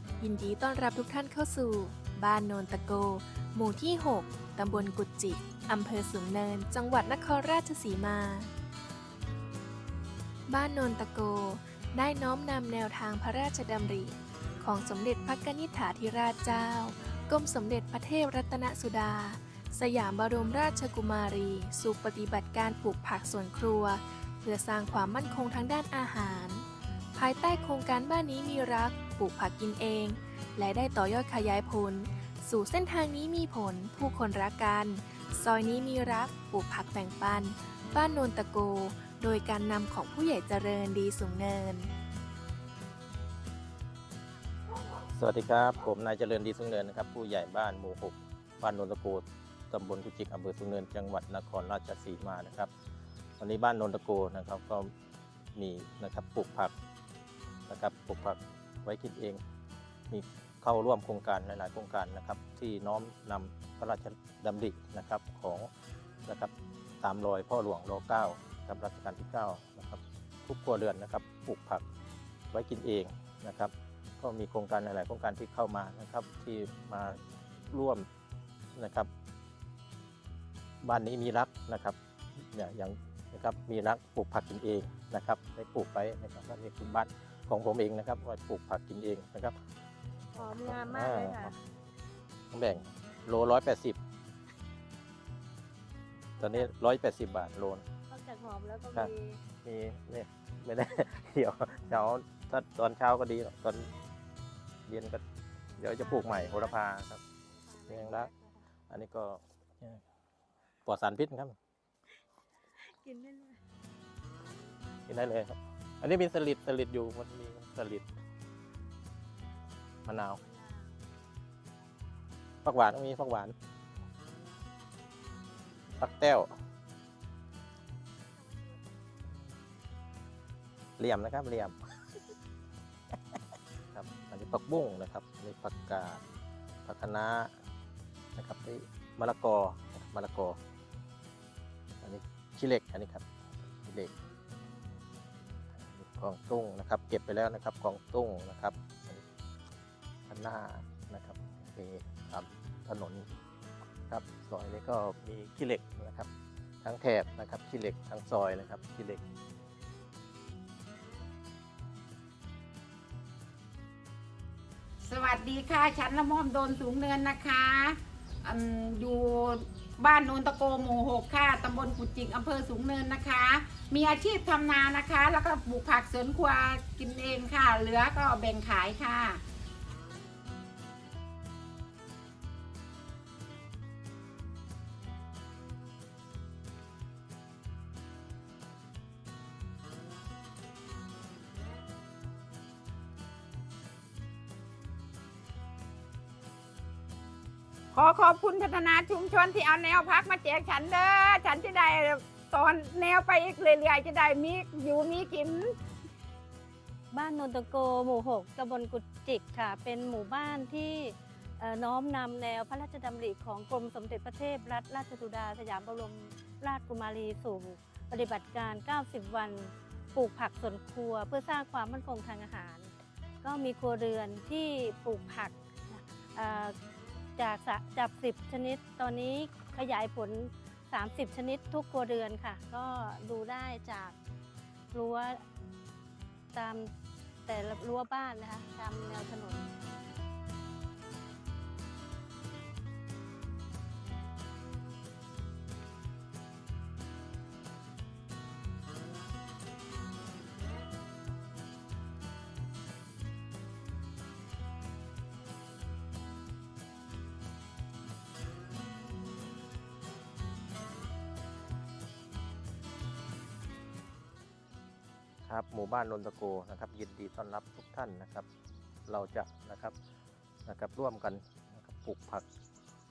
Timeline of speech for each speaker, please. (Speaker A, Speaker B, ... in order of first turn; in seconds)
Speaker A: 0.2-8.5, 10.5-26.6, 27.2-41.9
Speaker B: 45.1-52.7, 53.4-54.9, 55.5-56.7, 57.7-59.4, 60.1-65.7, 66.2-71.8, 72.5-78.0, 78.8-79.1, 80.8-82.0, 82.5-89.5, 90.4-91.5, 92.5-94.0, 96.4-97.8, 99.6-103.9, 104.9-105.2, 105.8-107.2, 107.9-108.3, 108.9-110.0, 110.9-111.5, 115.1-118.0, 120.0-120.4, 122.6-123.5, 126.0-126.5, 131.0-131.8, 133.9-136.2, 136.8-137.5, 138.4-140.6, 142.0-143.2, 143.9-144.1, 145.8-149.2, 150.3-153.3, 154.1-156.3, 156.8-159.2, 265.5-268.5, 269.1-269.9, 270.7-272.5
Speaker C: 90.4-91.5, 98.1-99.4, 105.8-106.8, 107.6-108.5, 112.8-113.5, 120.4-120.8, 207.1-222.9, 223.4-226.7, 227.4-234.1, 234.9-235.4, 236.5-236.9, 237.5-239.7
Speaker D: 165.1-179.4, 197.9-205.8